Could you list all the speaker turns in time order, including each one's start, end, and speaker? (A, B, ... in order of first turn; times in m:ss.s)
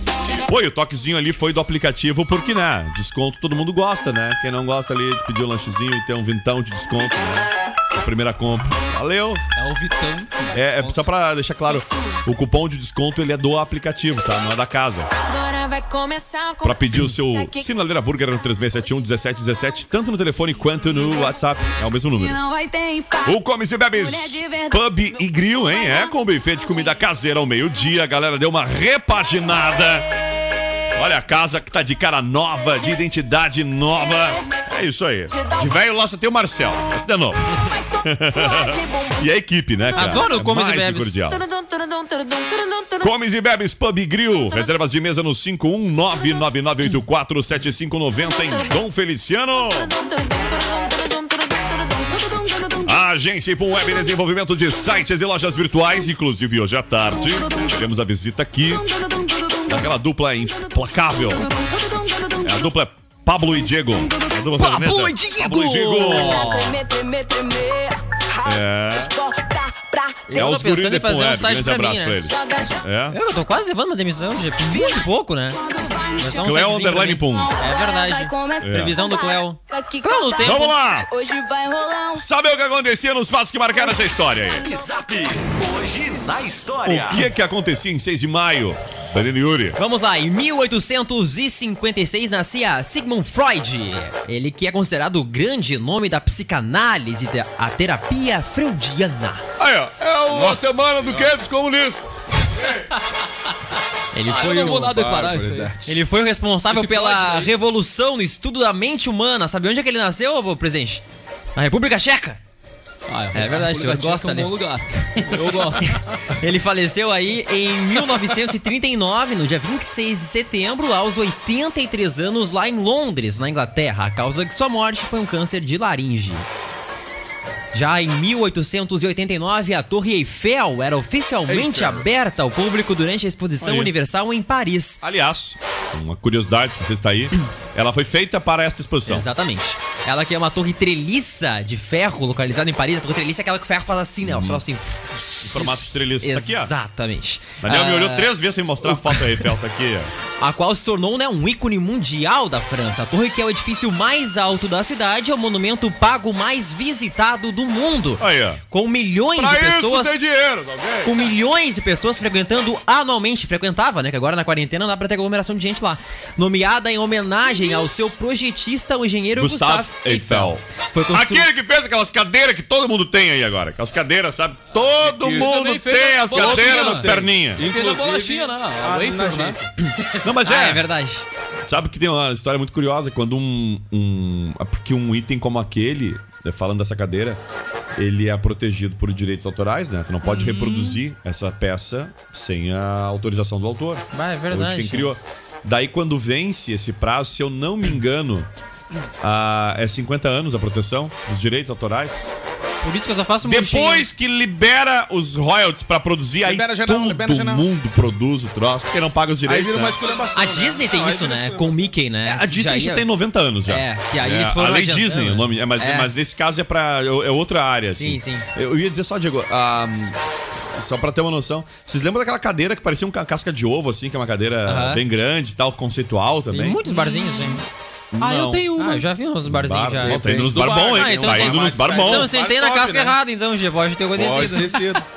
0:00.3-0:09.4 A
0:09.6-0:11.1 B
0:10.5-0:15.1 A
0:15.2-0:17.7 C
0:16.6-0:22.4 A
0:20.8-0:21.3 C
0:22.1-0:23.4 C
0:23.2-0:30.1 A
0:23.9-0:27.0 C
0:31.0-0:41.4 A
0:34.1-0:34.5 C
0:35.3-0:35.8 C
0:38.3-0:39.3 C
0:39.9-0:40.4 C
0:39.9-0:41.1 D
0:41.3-0:43.1 C
0:43.0-0:49.9 A
0:48.4-0:48.8 C
0:49.5-0:53.0 C
0:52.8-0:59.1 A
0:57.1-0:57.8 C
0:58.6-0:59.9 C
0:59.6-1:01.5 A
1:00.4-1:02.7 C
1:02.4-1:06.8 A
1:04.0-1:04.4 C
1:04.6-1:06.5 D
1:05.9-1:10.4 C
1:08.4-1:09.1 A
1:10.3-1:12.2 D
1:10.3-1:13.2 A
1:12.2-1:12.9 C
1:13.1-1:15.6 D
1:14.7-1:15.0 C
1:15.6-1:22.2 C
1:16.2-1:20.7 D
1:16.2-1:17.5 A
1:18.6-1:19.0 A
1:20.4-1:21.1 A
1:22.1-1:24.7 A
1:24.2-1:24.6 C
1:24.6-1:27.2 E
1:26.8-1:29.8 A
1:29.8-1:39.4 D
1:39.6-1:42.0 A
1:40.3-1:41.3 F
1:44.1-1:44.9 D
1:44.2-1:45.7 B
1:44.4-1:46.0 F
1:45.8-1:51.0 D
1:46.7-1:47.5 F
1:51.6-1:52.4 D
1:53.1-1:56.0 B
1:53.3-1:54.5 D
1:55.1-2:06.4 D
2:07.7-2:15.0 D
2:11.5-2:12.0 A
2:13.6-2:13.9 A
2:15.0-2:19.3 A
2:19.0-2:29.4 D
2:24.2-2:24.6 A
2:25.4-2:26.7 A
2:27.6-2:30.1 A
2:30.4-2:40.2 D
2:38.2-2:38.6 A
2:39.3-2:41.4 A
2:41.0-2:51.5 D
2:49.3-2:57.7 A
2:55.0-2:55.5 F
2:55.3-2:57.1 B
2:56.3-2:59.6 F
2:57.6-2:59.7 B
3:00.2-3:00.9 A
3:00.4-3:01.2 D
3:01.6-3:07.4 A
3:08.0-3:18.5 A
3:10.2-3:11.0 B
3:14.1-3:15.1 D
3:19.2-3:22.3 A
3:22.8-3:24.1 D
3:23.4-3:30.0 A
3:26.4-3:27.6 F
3:29.4-3:31.9 F
3:30.3-3:33.1 D
3:32.2-3:40.2 A
3:33.6-3:36.1 D
3:37.9-3:38.4 D
3:40.7-3:46.8 A
3:44.6-3:45.0 D
3:46.5-3:47.6 D
3:46.9-3:47.6 B
3:48.1-3:48.7 A
3:48.2-3:49.1 B
3:48.8-3:54.9 D
3:49.4-3:52.3 A
3:50.0-3:53.2 F
3:54.1-3:55.0 F